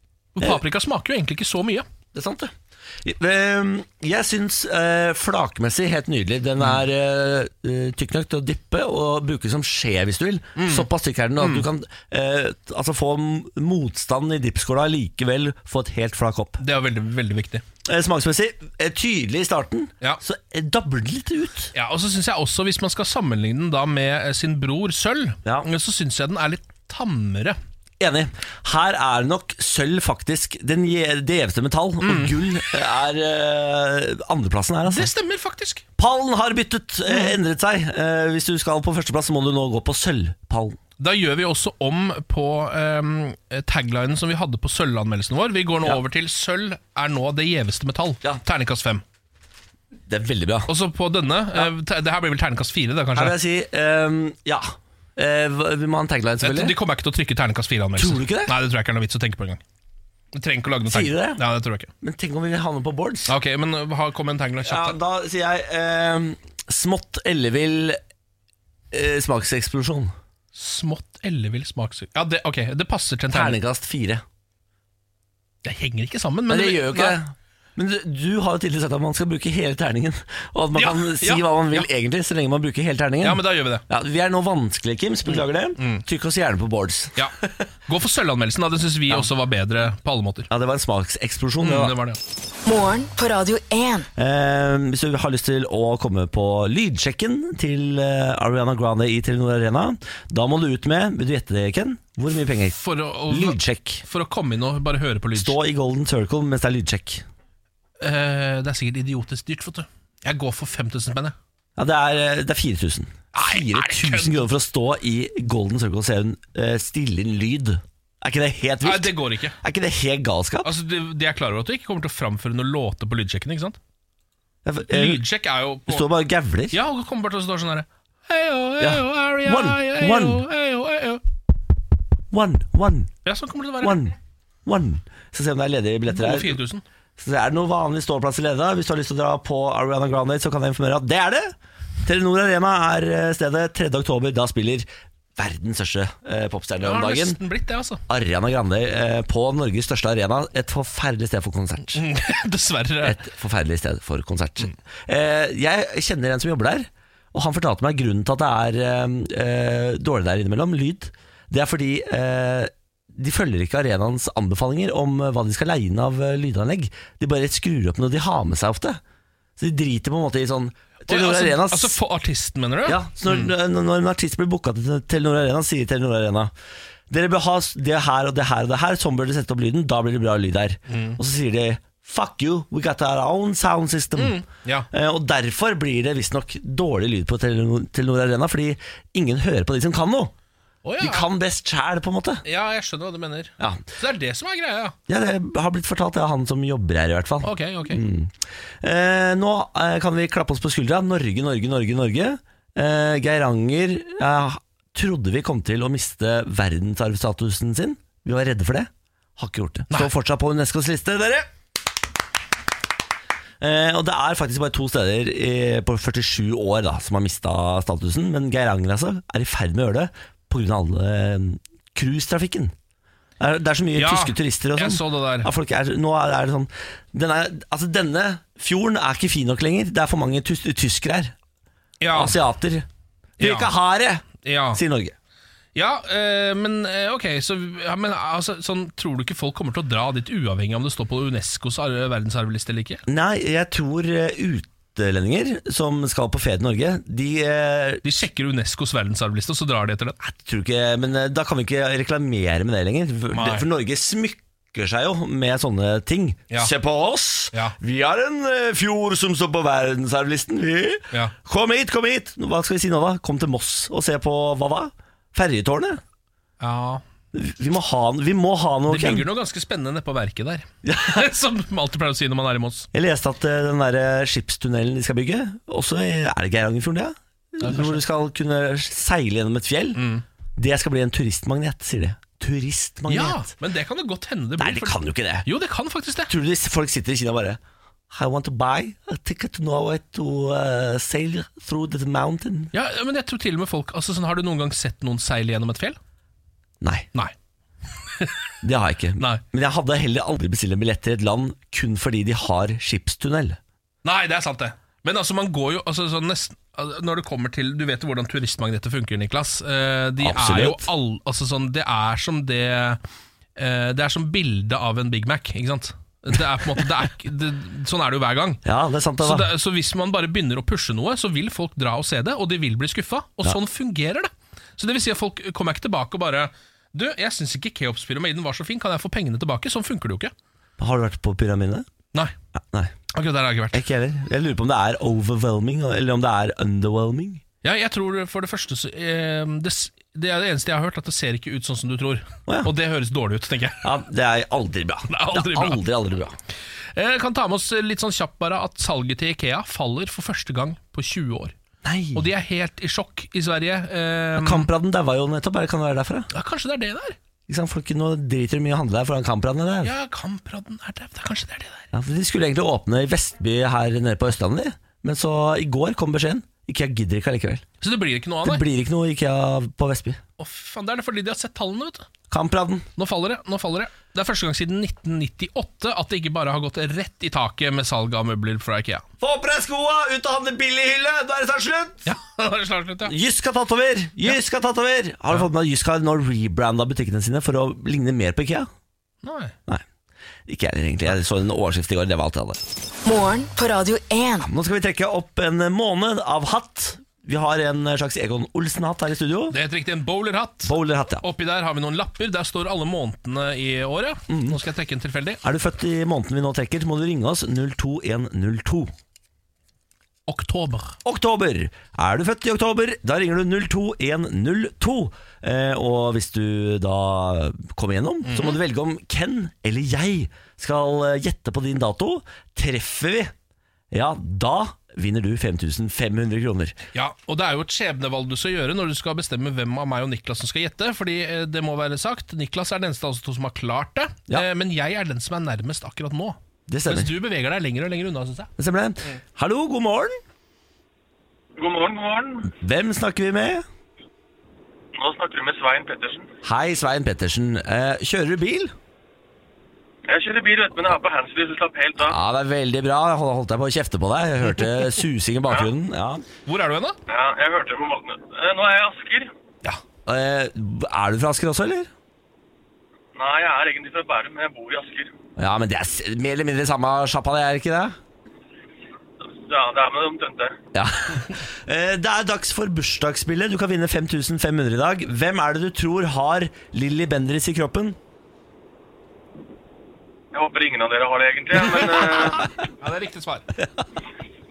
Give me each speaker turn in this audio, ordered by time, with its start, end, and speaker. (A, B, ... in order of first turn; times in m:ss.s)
0:00.4-0:01.9 A
0:02.1-0:16.6 B
0:10.6-0:11.7 A
0:16.6-0:17.6 A
0:17.8-0:21.7 B
0:21.7-0:27.6 A
0:28.0-0:35.1 B
0:32.0-0:32.6 A
0:34.9-0:35.8 A
0:36.0-0:40.8 B
0:37.1-0:37.4 A
0:41.0-0:49.0 A
0:50.1-0:50.7 B
0:50.7-0:53.4 A
0:53.1-0:56.8 B
0:56.4-0:59.6 A
0:58.0-0:58.5 B
1:00.3-1:01.9 A
1:00.9-1:01.4 B
1:02.0-1:03.3 B
1:03.3-1:05.0 A
1:04.6-1:08.0 B
1:08.9-1:10.1 B
1:10.5-1:13.6 A
1:13.3-1:14.2 B
1:15.6-1:17.2 A
1:16.5-1:27.5 B
1:20.7-1:21.9 A
1:23.2-1:23.8 A
1:25.2-1:26.0 A
1:27.9-1:30.5 A
1:30.5-1:32.0 B
1:31.6-1:32.2 A
1:32.6-1:34.1 C
1:34.2-1:44.0 B
1:42.7-1:45.6 A
1:45.3-1:47.2 B
1:48.0-1:51.4 A
1:51.8-2:00.7 B
1:53.3-1:54.4 A
1:58.8-1:59.6 A
2:00.6-2:03.8 A
2:04.6-2:05.2 B
2:04.9-2:06.1 A
2:05.9-2:06.8 B
2:06.7-2:11.2 A
2:08.8-2:10.4 B
2:12.3-2:13.1 B
2:13.2-2:14.1 A
2:13.8-2:14.1 B
2:14.7-2:16.6 B
2:16.1-2:16.8 A
2:17.2-2:27.4 B
2:26.8-2:28.0 A
2:28.1-2:32.0 B
2:31.9-2:33.2 A
2:33.0-2:49.0 B
2:49.6-2:52.0 B
2:51.0-2:53.5 A
2:52.9-2:56.5 B
2:57.1-3:04.4 B
3:00.9-3:01.2 A
3:04.2-3:04.9 A
3:04.9-3:10.3 B
3:10.8-3:11.3 A
3:11.0-3:12.4 B
3:12.4-3:15.0 A
3:15.1-3:31.5 B
3:17.4-3:18.0 A
3:33.6-3:42.7 B
3:43.4-3:51.4 B
3:44.0-3:45.5 A
3:52.0-3:52.4 A
3:52.1-3:52.9 B
3:53.4-3:55.1 B
3:53.4-3:53.7 A
3:54.4-3:54.8 A
3:55.7-4:03.0 A
4:03.1-4:08.0 B
4:08.0-4:10.2 A
4:10.2-4:26.0 B
4:13.3-4:13.7 A
4:26.6-4:27.0 A
4:27.3-4:29.3 B
4:28.9-4:32.9 A
4:30.8-4:31.2 B
4:32.9-4:40.0 B
4:37.6-4:38.0 A
4:40.0-4:40.2 A
4:40.6-4:43.5 B
4:43.1-4:46.3 A
4:44.6-4:45.4 B
4:46.3-4:47.6 B
4:48.1-4:52.7 B
4:52.7-4:56.0 A
4:56.8-4:57.1 B
4:58.0-4:58.4 A
4:58.6-5:03.6 B
4:59.2-4:59.4 A
5:04.0-5:13.0 A
5:10.2-5:10.9 B
5:13.6-5:18.6 A
5:18.6-5:19.5 B
5:19.2-5:30.3 A
5:30.8-5:31.9 B
5:33.1-5:33.8 A
5:33.7-5:37.4 B
5:37.6-5:43.8 A
5:43.8-5:46.4 B
5:45.1-5:45.8 A
5:46.9-5:51.6 A
5:51.8-5:52.3 B
5:52.1-5:54.7 A
5:54.4-5:56.3 B
5:56.3-5:57.2 A
5:57.5-5:59.9 B
5:59.8-6:01.9 A
6:01.9-6:07.6 B
6:07.8-6:08.6 A
6:08.4-6:10.2 B
6:10.4-6:12.1 A
6:12.3-6:12.9 B
6:13.0-6:19.0 A
6:19.2-6:22.0 B
6:22.0-6:23.1 A
6:23.0-6:28.7 B
6:29.2-6:29.6 A
6:30.5-6:32.6 B
6:33.0-6:34.5 C
6:34.4-6:39.6 B
6:39.5-6:45.4 A
6:40.6-6:41.2 B
6:44.3-6:44.6 B
6:45.4-6:48.9 B
6:50.3-6:51.0 A
6:51.0-7:03.3 B
6:58.3-6:58.6 A
7:03.9-7:06.7 B
7:06.9-7:18.5 A
7:16.7-7:17.1 B
7:18.6-7:20.2 B
7:21.6-7:22.5 D
7:22.5-7:23.6 B
7:25.0-7:26.3 D
7:26.4-7:28.7 B
7:30.1-7:32.2 D
7:32.0-7:36.2 B
7:36.4-7:37.0 A
7:37.1-7:39.3 D
7:40.0-7:41.9 B
7:43.1-7:45.1 D
7:45.4-7:48.0 B
7:49.2-7:50.6 D
7:50.7-7:58.0 B
8:00.3-8:02.5 D
8:02.8-8:03.5 A